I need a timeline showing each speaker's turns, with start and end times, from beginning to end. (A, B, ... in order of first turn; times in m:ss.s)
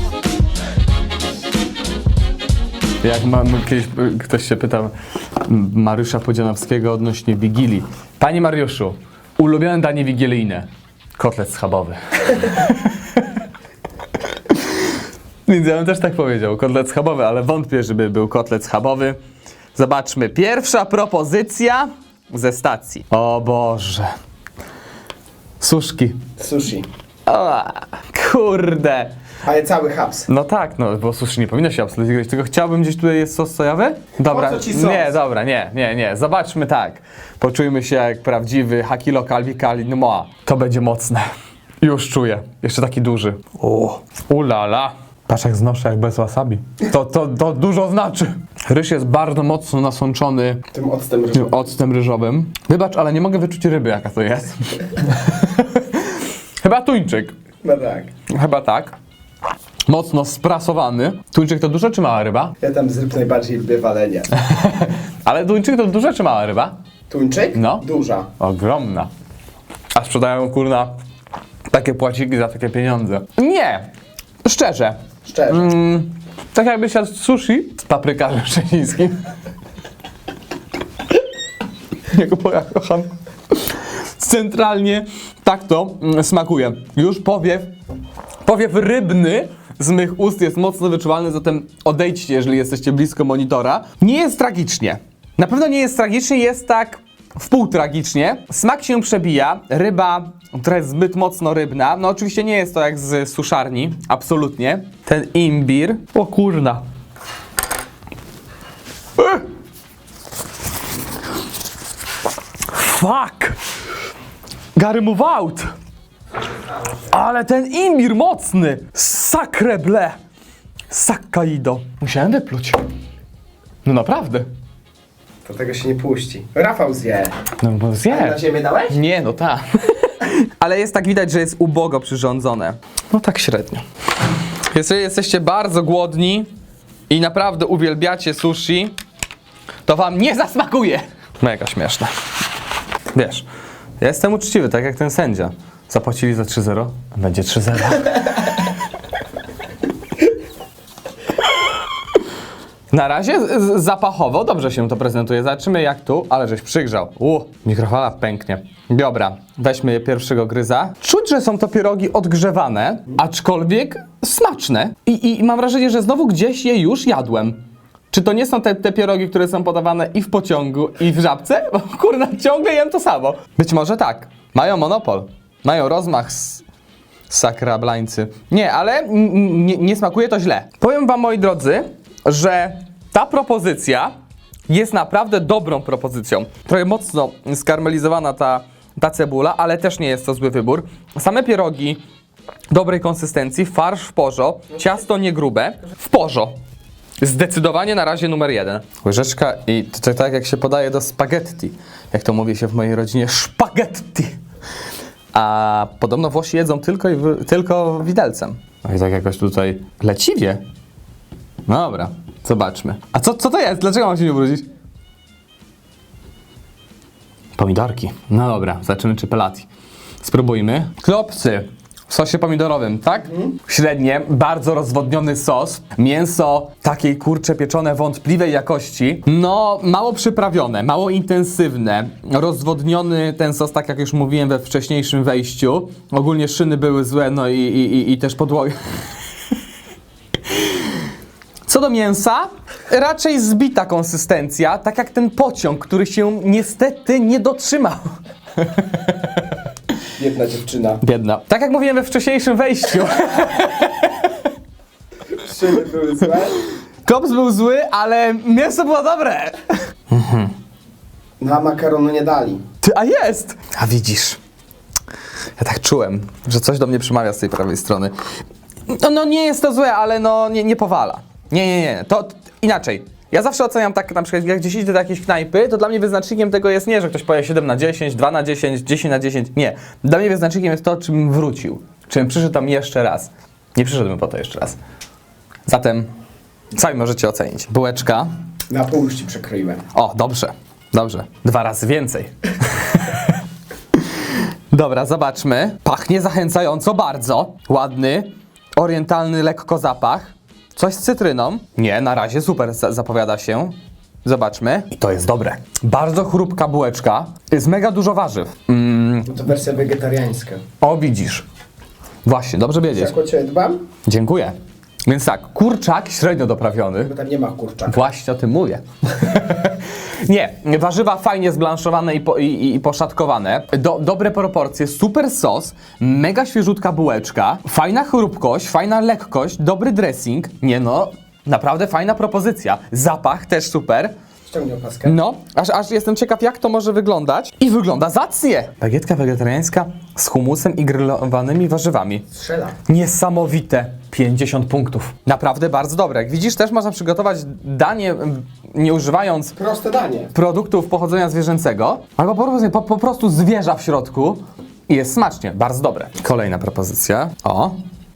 0:03.0-0:10.7 A
0:11.2-0:13.3 A
0:14.3-0:15.0 A
0:15.5-0:19.2 A
0:19.8-0:24.1 A
0:25.6-0:26.2 A
0:26.4-0:26.9 B
0:27.3-0:29.1 A
0:29.4-0:30.3 B
0:30.3-0:41.3 A
0:34.3-0:35.2 B
0:41.8-0:50.6 A
0:50.7-0:51.6 B
0:51.3-0:57.4 A
0:57.6-0:58.1 B
0:58.3-0:59.0 A
0:59.9-1:02.6 A
1:02.6-1:04.3 B
1:04.4-1:06.8 A
1:07.1-1:08.3 B
1:07.6-1:07.8 A
1:08.4-1:09.1 A
1:09.9-1:10.9 A
1:11.7-1:13.9 A
1:14.4-1:15.0 A
1:15.2-1:15.7 B
1:15.5-1:19.2 A
1:22.1-1:27.7 A
1:28.4-1:46.8 A
1:49.2-1:49.4 A
1:52.7-1:53.6 A
1:54.8-1:55.7 A
1:57.0-2:00.2 A
2:00.9-2:02.8 A
2:03.8-2:04.5 A
2:05.4-2:07.3 B
2:07.6-2:13.8 A
2:08.1-2:09.0 B
2:14.7-2:16.5 A
2:17.1-2:19.0 A
2:19.9-2:22.1 A
2:23.1-2:23.5 A
2:24.0-2:28.6 A
2:32.9-2:47.6 A
2:48.1-2:56.6 A
2:57.3-3:04.1 A
3:04.7-3:12.0 A
3:12.7-3:16.6 A
3:17.2-3:24.4 A
3:25.3-3:30.6 A
3:31.7-3:34.6 A
3:37.6-3:39.7 A
3:40.2-3:58.8 A
4:00.5-4:01.0 A
4:01.7-4:09.4 A
4:10.2-4:11.0 B
4:11.0-4:14.4 A
4:15.4-4:16.6 B
4:17.0-4:20.5 A
4:21.4-4:22.6 B
4:22.8-4:24.4 A
4:25.6-4:28.1 A
4:28.9-4:44.8 A
4:45.7-4:46.1 A
4:46.7-4:48.3 A
4:48.7-4:49.8 B
4:49.9-4:53.4 A
4:53.9-5:09.3 A
5:09.3-5:10.6 B
5:10.8-5:11.5 A
5:12.2-5:13.1 A
5:12.9-5:13.8 B
5:14.1-5:14.6 A
5:15.1-5:17.1 A
5:17.0-5:18.0 B
5:17.9-5:34.1 A
5:34.5-5:35.2 B
5:35.0-5:42.3 A
5:42.3-5:42.8 B
5:42.9-5:49.6 A
5:49.6-5:50.3 B
5:50.3-5:57.8 A